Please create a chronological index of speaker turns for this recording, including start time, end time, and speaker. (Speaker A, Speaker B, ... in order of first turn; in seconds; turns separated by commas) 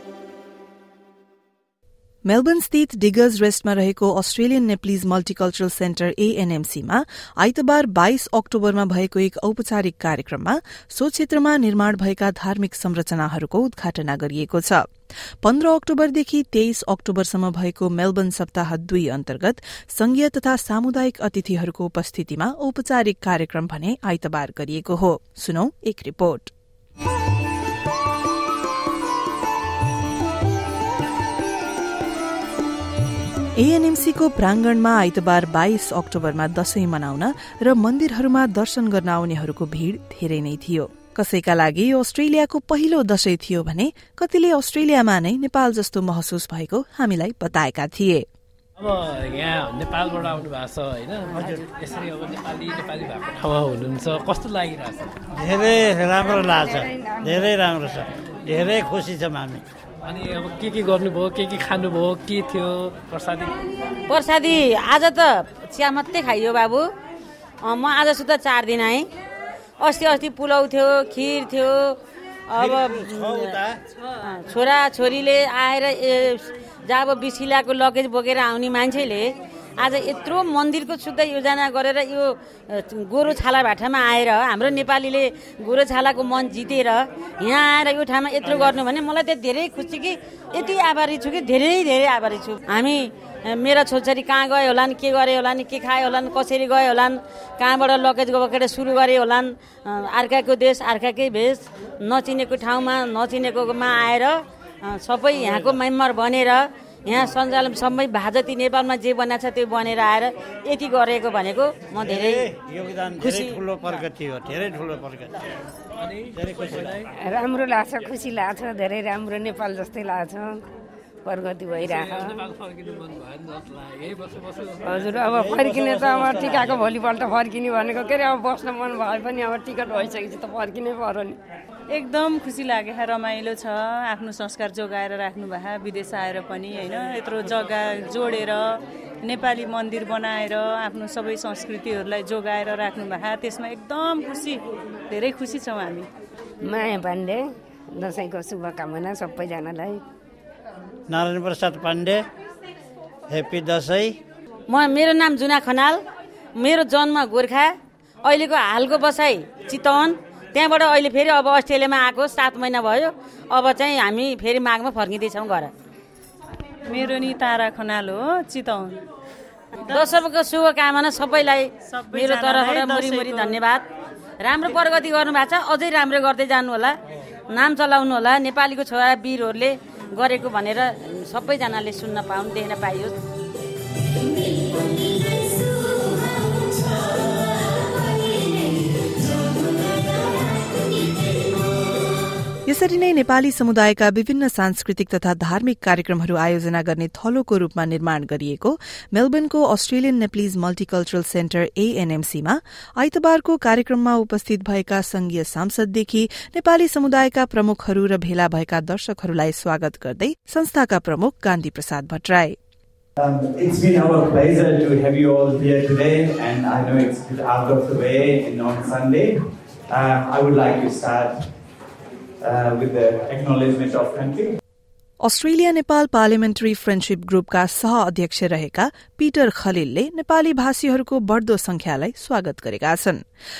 Speaker A: 2.2-14.9, Speaker A: 15.4-26.5, Speaker A: 33.5-48.2, Speaker B: 48.8-55.2, Speaker C: 55.3-59.6, Speaker D: 56.3-57.4, Speaker B: 60.0-63.6, Speaker E: 64.1-66.9, Speaker E: 67.6-69.0, Speaker E: 69.8-72.0, Speaker E: 72.5-73.6, Speaker C: 72.6-73.8, Speaker E: 74.2-112.5, Speaker C: 105.3-105.7, Speaker C: 112.0-115.3, Speaker E: 113.2-113.6, Speaker B: 116.0-117.0, Speaker C: 116.4-117.0, Speaker D: 117.2-120.6, Speaker D: 121.2-122.4, Speaker B: 121.8-125.6, Speaker D: 124.8-131.4, Speaker C: 125.4-126.7, Speaker B: 126.2-126.6, Speaker F: 131.9-146.1, Speaker D: 146.6-150.0, Speaker C: 151.1-152.2, Speaker C: 153.3-154.2, Speaker E: 154.7-156.0, Speaker E: 156.6-157.7, Speaker E: 158.2-165.7, Speaker F: 166.9-169.0, Speaker F: 169.9-170.2, Speaker E: 169.9-173.8, Speaker F: 171.9-173.6, Speaker E: 174.4-176.9, Speaker E: 177.5-183.1, Speaker A: 192.7-212.6, Speaker G: 213.2-219.3, Speaker G: 219.9-221.3, Speaker G: 222.4-224.5, Speaker A: 225.2-233.2